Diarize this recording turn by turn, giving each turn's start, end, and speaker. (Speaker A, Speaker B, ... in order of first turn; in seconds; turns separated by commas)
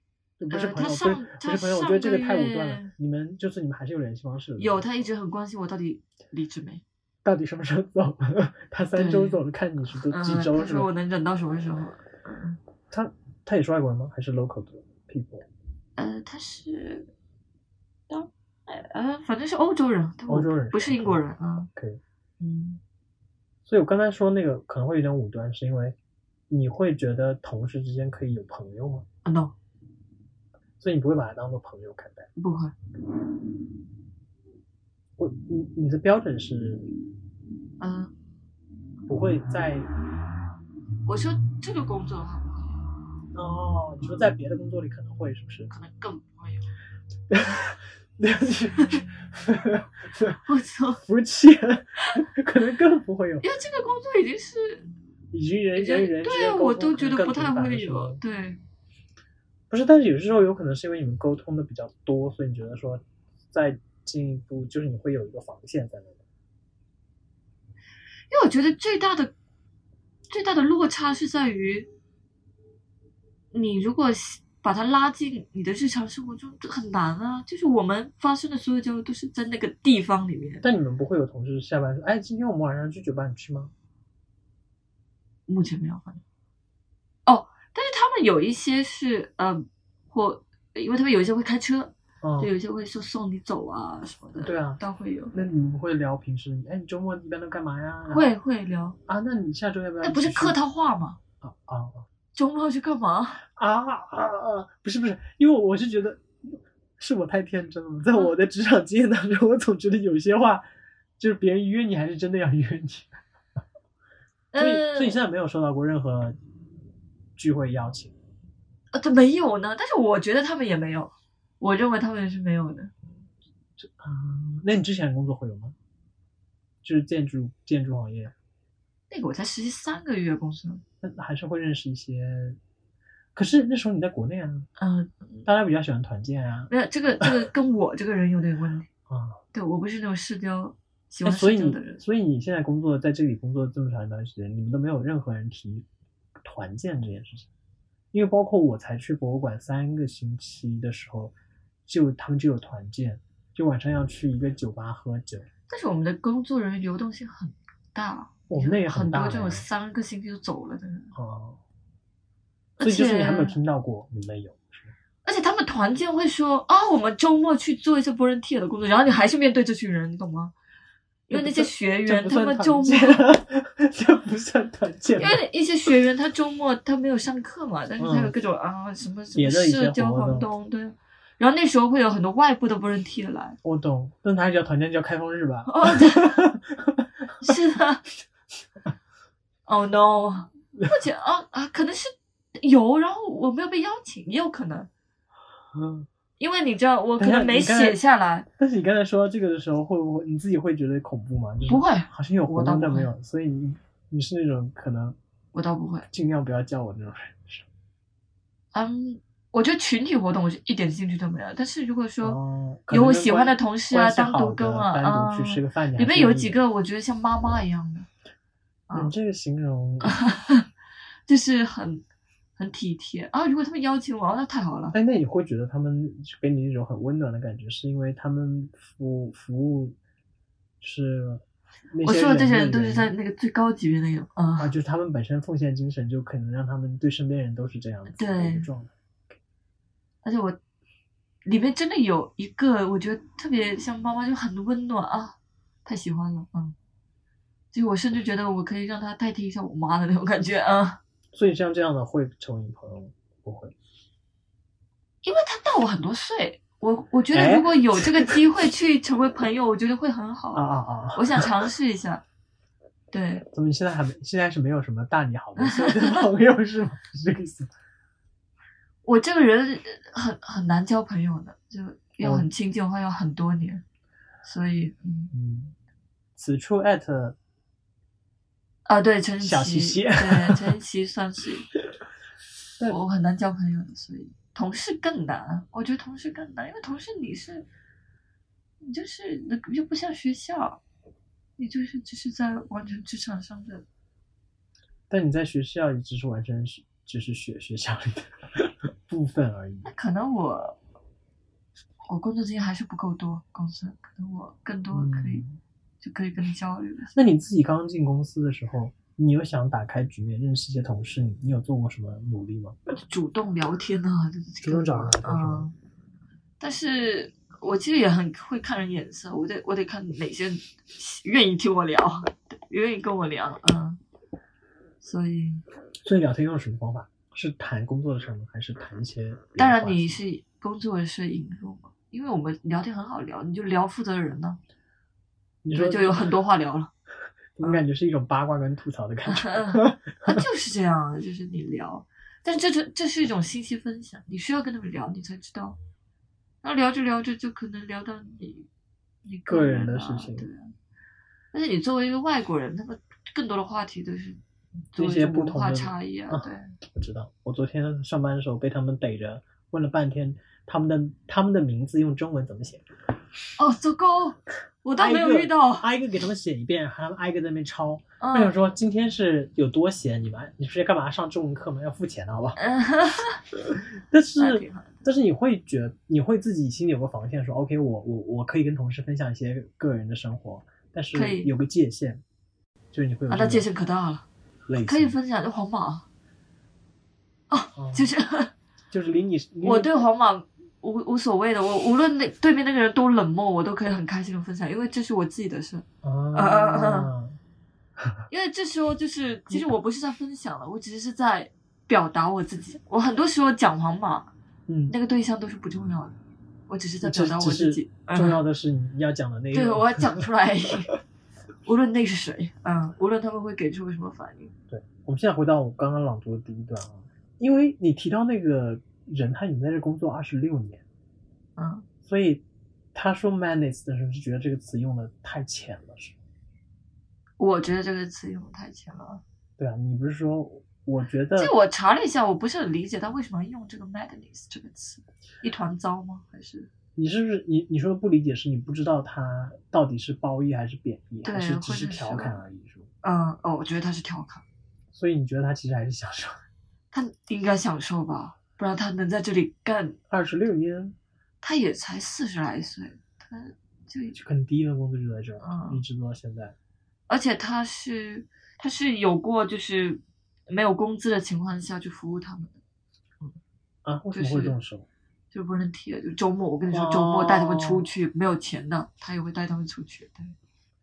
Speaker A: 0.4-5.0, Speaker B: 0.5-2.9, Speaker B: 4.6-6.8, Speaker A: 7.2-10.9, Speaker B: 8.9-9.4, Speaker B: 10.1-12.6, Speaker A: 12.9-15.5, Speaker B: 16.0-17.1, Speaker B: 18.1-21.7, Speaker A: 20.3-22.0, Speaker B: 22.4-22.8, Speaker A: 23.6-25.9, Speaker A: 26.5-29.1, Speaker B: 29.2-29.5, Speaker A: 30.8-32.3, Speaker B: 32.4-32.7, Speaker A: 35.2-36.9, Speaker B: 37.8-38.1, Speaker A: 39.1-39.9, Speaker B: 41.0-42.9, Speaker A: 43.3-45.7, Speaker B: 45.7-46.7, Speaker A: 47.3-50.4, Speaker B: 50.4-51.0, Speaker A: 51.0-53.5, Speaker B: 53.4-54.9, Speaker A: 55.3-58.2, Speaker B: 55.8-58.6, Speaker A: 59.7-66.2, Speaker B: 68.3-69.3, Speaker B: 70.3-71.9, Speaker B: 73.5-80.6, Speaker A: 80.6-83.7, Speaker B: 85.5-86.2, Speaker B: 87.2-95.3, Speaker A: 92.2-92.5, Speaker A: 94.4-94.8, Speaker A: 95.3-98.3, Speaker B: 98.1-99.0, Speaker A: 99.1-100.6, Speaker B: 100.0-101.2, Speaker A: 101.4-102.0, Speaker B: 102.3-103.4, Speaker A: 103.5-110.6, Speaker A: 111.2-113.1, Speaker B: 114.5-115.2, Speaker A: 114.6-116.4, Speaker A: 117.3-118.2, Speaker B: 118.9-122.9, Speaker A: 123.8-125.8, Speaker A: 126.8-128.3, Speaker B: 129.1-130.8, Speaker A: 131.0-132.6, Speaker A: 133.3-134.7, Speaker B: 134.8-135.4, Speaker A: 135.4-137.5, Speaker B: 136.7-138.9, Speaker A: 139.1-139.4, Speaker B: 139.5-142.0, Speaker A: 141.2-145.8, Speaker A: 146.4-147.5, Speaker A: 148.1-151.3, Speaker A: 151.9-155.5, Speaker B: 155.7-161.1, Speaker A: 158.5-159.6, Speaker A: 161.1-161.6, Speaker B: 162.8-163.6, Speaker A: 162.8-164.9, Speaker B: 165.2-170.5, Speaker B: 171.3-173.2, Speaker A: 171.3-175.4, Speaker B: 175.2-183.6, Speaker A: 178.0-178.3, Speaker A: 179.3-180.5, Speaker A: 183.6-187.5, Speaker B: 185.7-186.4, Speaker B: 187.4-188.0, Speaker B: 189.7-194.9, Speaker A: 195.7-196.1, Speaker B: 196.4-198.5, Speaker A: 197.2-198.0, Speaker A: 198.6-205.2, Speaker B: 201.7-203.1, Speaker B: 205.5-206.1, Speaker A: 206.1-207.7, Speaker B: 208.7-212.4, Speaker A: 212.2-216.6, Speaker B: 212.9-218.1, Speaker A: 218.9-220.2, Speaker B: 220.0-220.7, Speaker B: 221.3-222.0, Speaker B: 222.6-224.9, Speaker A: 224.9-230.0, Speaker A: 230.8-233.1, Speaker B: 232.0-234.7, Speaker A: 234.6-238.9, Speaker B: 238.1-238.7, Speaker B: 240.2-240.6, Speaker B: 241.4-246.7, Speaker B: 247.7-251.0, Speaker A: 251.3-253.7, Speaker B: 255.2-262.2, Speaker A: 257.3-258.4, Speaker A: 260.5-261.7, Speaker B: 263.1-263.4, Speaker A: 263.5-267.7, Speaker B: 265.6-266.3, Speaker B: 269.0-273.8, Speaker A: 272.2-272.5, Speaker B: 274.4-275.3, Speaker A: 275.3-275.7, Speaker A: 276.4-277.4, Speaker B: 278.9-281.7, Speaker A: 279.4-280.7, Speaker B: 282.9-287.6, Speaker B: 288.8-290.8, Speaker B: 291.6-293.8, Speaker A: 295.1-299.9, Speaker B: 299.8-300.8, Speaker B: 302.1-305.4, Speaker A: 304.9-305.6, Speaker B: 306.0-307.1, Speaker A: 307.1-312.8, Speaker B: 313.0-315.7, Speaker A: 314.6-315.7, Speaker B: 316.6-324.0, Speaker B: 325.0-325.6, Speaker A: 326.0-330.2, Speaker B: 329.6-334.6, Speaker A: 335.6-336.3, Speaker B: 335.7-336.9, Speaker A: 337.6-340.4, Speaker B: 339.3-345.8, Speaker B: 346.6-348.7, Speaker B: 349.2-350.7, Speaker A: 349.5-350.5, Speaker B: 351.5-354.4, Speaker B: 354.9-356.8, Speaker A: 354.9-362.8, Speaker B: 363.6-365.9, Speaker A: 365.0-372.6, Speaker B: 368.2-368.5, Speaker B: 372.6-373.4, Speaker A: 374.1-382.2, Speaker B: 374.4-375.0, Speaker B: 381.1-381.5, Speaker A: 382.9-383.7, Speaker B: 383.3-384.2, Speaker A: 384.7-385.2, Speaker B: 384.8-386.1, Speaker B: 387.5-388.5, Speaker A: 387.8-388.1, Speaker A: 388.9-389.9, Speaker B: 389.6-397.1, Speaker A: 396.0-397.4, Speaker A: 398.0-398.2, Speaker B: 398.3-404.3, Speaker A: 404.7-404.9, Speaker B: 404.9-406.2, Speaker B: 406.7-408.4, Speaker A: 407.0-410.2, Speaker B: 409.5-410.9, Speaker B: 411.6-414.5, Speaker A: 414.7-420.8, Speaker B: 421.6-421.9, Speaker A: 422.0-422.4, Speaker A: 422.9-426.2, Speaker B: 427.4-429.2, Speaker A: 429.6-431.5, Speaker B: 431.4-436.7, Speaker A: 436.9-442.9, Speaker B: 441.2-442.4, Speaker B: 443.0-444.4, Speaker A: 444.9-446.4, Speaker B: 446.9-450.0, Speaker A: 450.1-450.9, Speaker B: 451.4-454.1, Speaker A: 454.1-456.6, Speaker B: 455.4-455.8, Speaker B: 457.1-462.5, Speaker A: 463.8-464.9, Speaker B: 464.1-464.6, Speaker B: 465.3-470.3, Speaker A: 466.7-467.9